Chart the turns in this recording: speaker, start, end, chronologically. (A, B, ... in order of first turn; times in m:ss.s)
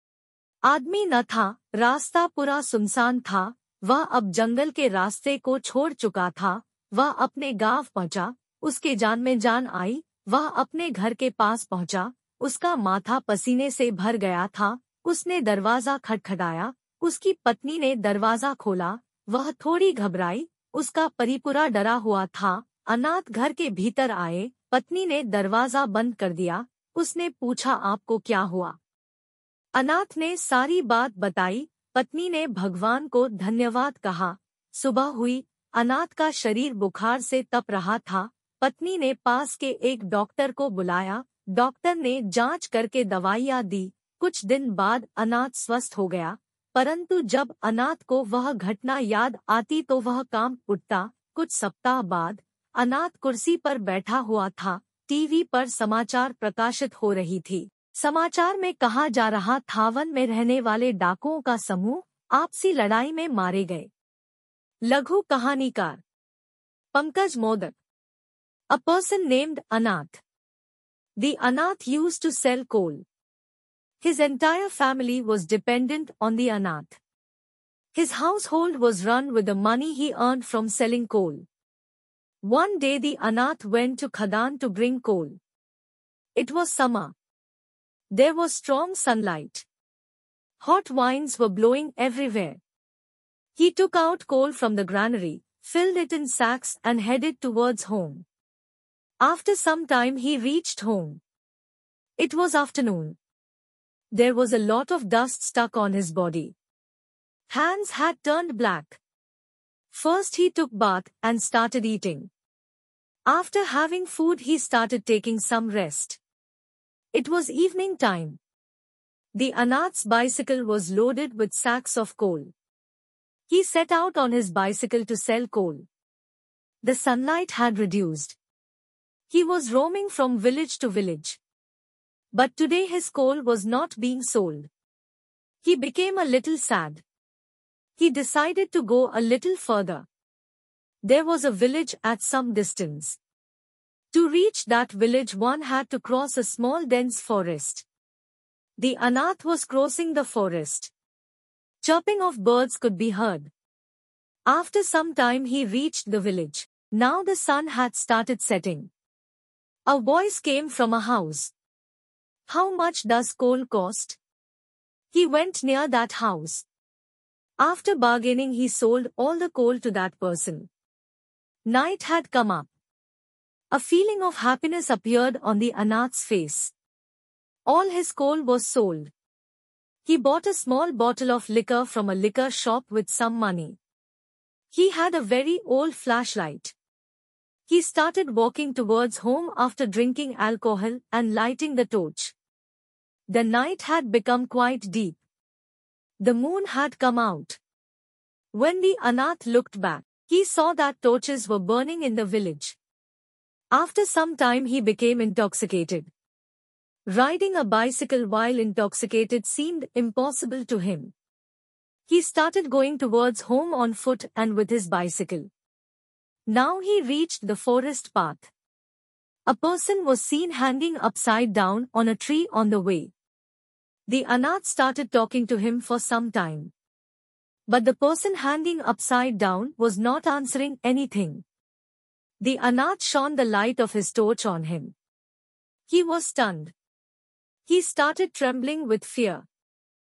0:00.6-0:28.8 A
0:29.8-1:03.9 A
1:04.8-1:06.0 A
1:06.9-1:07.8 A
1:08.7-1:10.2 A
1:11.2-1:13.0 A
1:14.0-1:17.0 A
1:17.9-1:21.4 A
1:22.4-1:25.4 A
1:26.4-1:27.1 A
1:28.1-1:29.6 A
1:30.6-1:32.6 A
1:33.6-1:38.2 A
1:39.2-1:41.2 A
1:42.2-1:43.2 A
1:44.1-1:46.5 A
1:47.5-1:49.0 A
1:49.9-1:52.3 A
1:53.3-1:56.2 A
1:57.1-1:58.4 A
1:59.3-2:02.5 A
2:03.5-2:05.8 A
2:06.8-2:08.4 A
2:09.3-2:11.4 A
2:12.3-2:14.7 A
2:15.6-2:17.0 A
2:18.0-2:20.0 A
2:21.0-2:23.2 A
2:24.1-2:27.8 A
2:28.8-2:30.9 A
2:31.8-2:33.5 A
2:34.5-2:38.9 A
2:39.9-2:41.5 A
2:42.5-2:44.2 A
2:45.1-2:46.6 A
2:47.6-2:50.7 A
2:51.7-2:52.7 A
2:53.7-2:56.7 A
2:57.7-2:59.1 A
3:00.0-3:03.8 A
3:04.7-3:06.7 A
3:07.7-3:12.3 A
3:13.3-3:15.2 A
3:16.2-3:17.6 A
3:18.5-3:22.8 A
3:23.7-3:26.1 A
3:27.1-3:31.1 A
3:32.1-3:35.5 A
3:36.5-3:38.5 A
3:39.5-3:43.1 A
3:44.1-3:46.7 A
3:47.7-3:51.4 A
3:52.4-3:54.9 A
3:55.9-3:56.7 A
3:57.7-3:59.4 A